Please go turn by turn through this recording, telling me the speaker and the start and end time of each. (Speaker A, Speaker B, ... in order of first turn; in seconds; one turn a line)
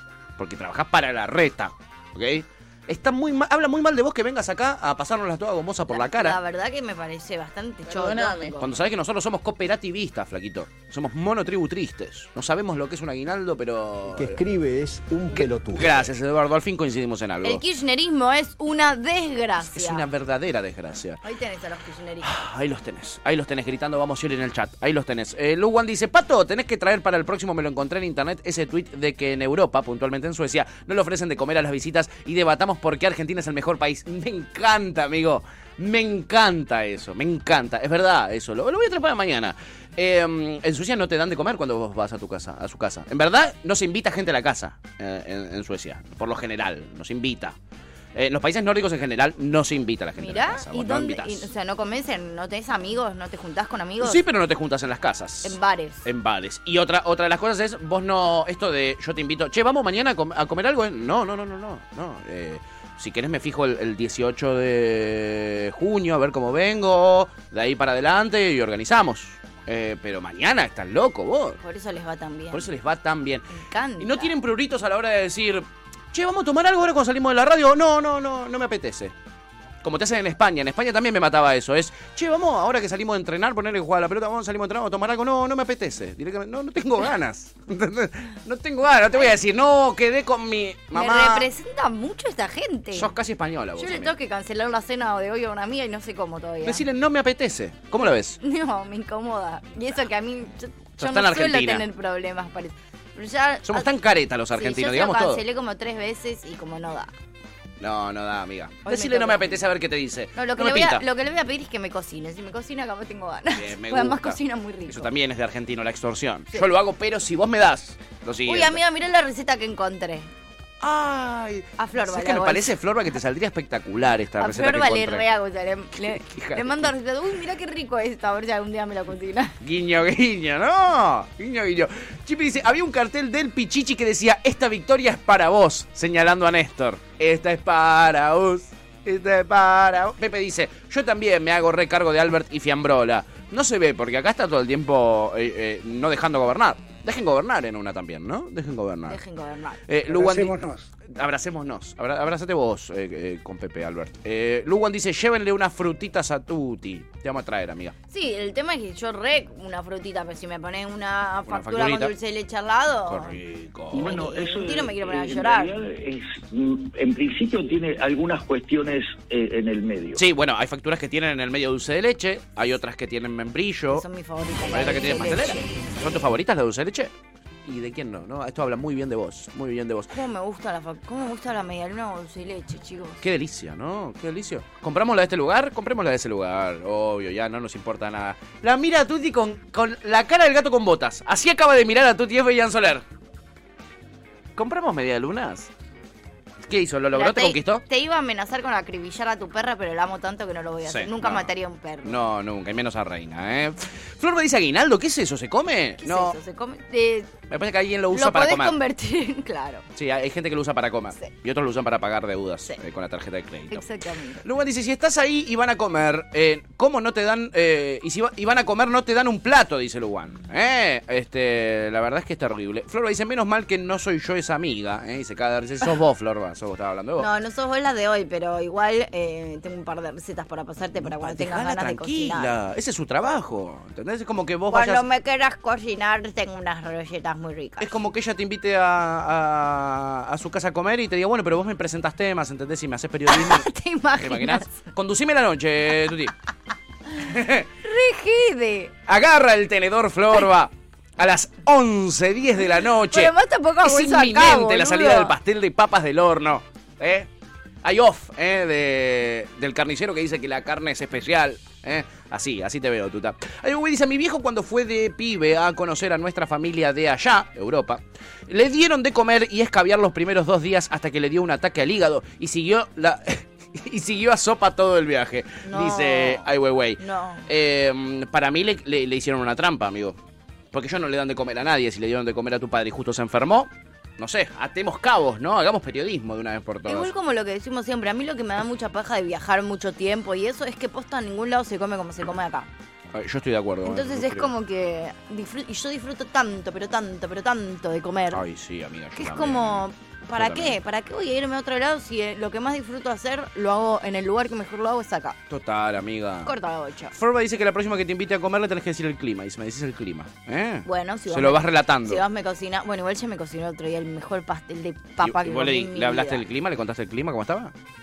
Speaker A: 0.4-6.4
Speaker B: 5.9-8.7
Speaker A: 8.6-14.4
Speaker C: 14.1-16.1
Speaker A: 15.3-17.6
Speaker B: 17.4-20.1
Speaker A: 19.6-21.2
Speaker B: 21.2-22.3
Speaker A: 22.2-47.6
Speaker A: 48.1-51.5
Speaker B: 50.2-54.2
Speaker A: 54.0-71.6
Speaker B: 55.4-56.1
Speaker B: 71.6-72.7
Speaker A: 72.5-79.1
Speaker B: 73.5-74.3
Speaker A: 79.8-91.5
Speaker B: 90.9-93.1
Speaker A: 92.9-94.1
Speaker B: 93.8-96.8
Speaker A: 96.6-98.4
Speaker B: 98.4-103.9
Speaker A: 101.0-101.9
Speaker A: 103.7-105.4
Speaker B: 104.5-107.1
Speaker A: 107.8-111.0
Speaker B: 108.8-109.7
Speaker B: 110.3-115.1
Speaker A: 113.5-118.8
Speaker B: 118.5-120.3
Speaker A: 120.8-125.2
Speaker B: 121.8-122.7
Speaker B: 124.4-129.6
Speaker A: 126.0-126.9
Speaker A: 129.6-149.2
Speaker B: 149.1-149.8
Speaker A: 149.9-157.9
Speaker B: 158.1-163.4
Speaker A: 161.5-162.1
Speaker A: 163.1-164.3
Speaker D: 163.9-170.2
Speaker B: 164.0-165.8
Speaker A: 170.2-174.1
Speaker B: 173.9-176.3
Speaker A: 174.7-177.1
Speaker A: 177.6-180.2
Speaker B: 180.1-183.2
Speaker A: 183.2-193.1
Speaker A: 194.6-195.7
Speaker A: 196.7-197.8
Speaker B: 197.1-202.3
Speaker A: 200.8-201.5
Speaker A: 202.0-206.4
Speaker B: 206.0-207.3
Speaker A: 207.5-208.8
Speaker B: 208.1-209.9
Speaker A: 209.9-213.9
Speaker B: 213.7-214.4
Speaker A: 214.4-227.3
Speaker B: 227.2-232.5
Speaker A: 230.9-235.0
Speaker B: 234.7-237.9
Speaker A: 237.8-246.3
Speaker B: 243.3-244.7
Speaker A: 247.2-247.7
Speaker B: 247.8-248.9
Speaker A: 249.1-257.3
Speaker B: 253.1-255.3
Speaker A: 257.8-280.2
Speaker B: 275.6-276.5
Speaker B: 277.0-277.5
Speaker A: 280.7-287.1
Speaker B: 286.9-292.7
Speaker A: 293.1-294.5
Speaker B: 293.8-298.4
Speaker A: 298.3-300.8
Speaker B: 299.1-305.4
Speaker A: 305.5-306.5
Speaker B: 306.4-307.1
Speaker A: 307.1-312.2
Speaker B: 310.9-316.4
Speaker A: 315.2-317.7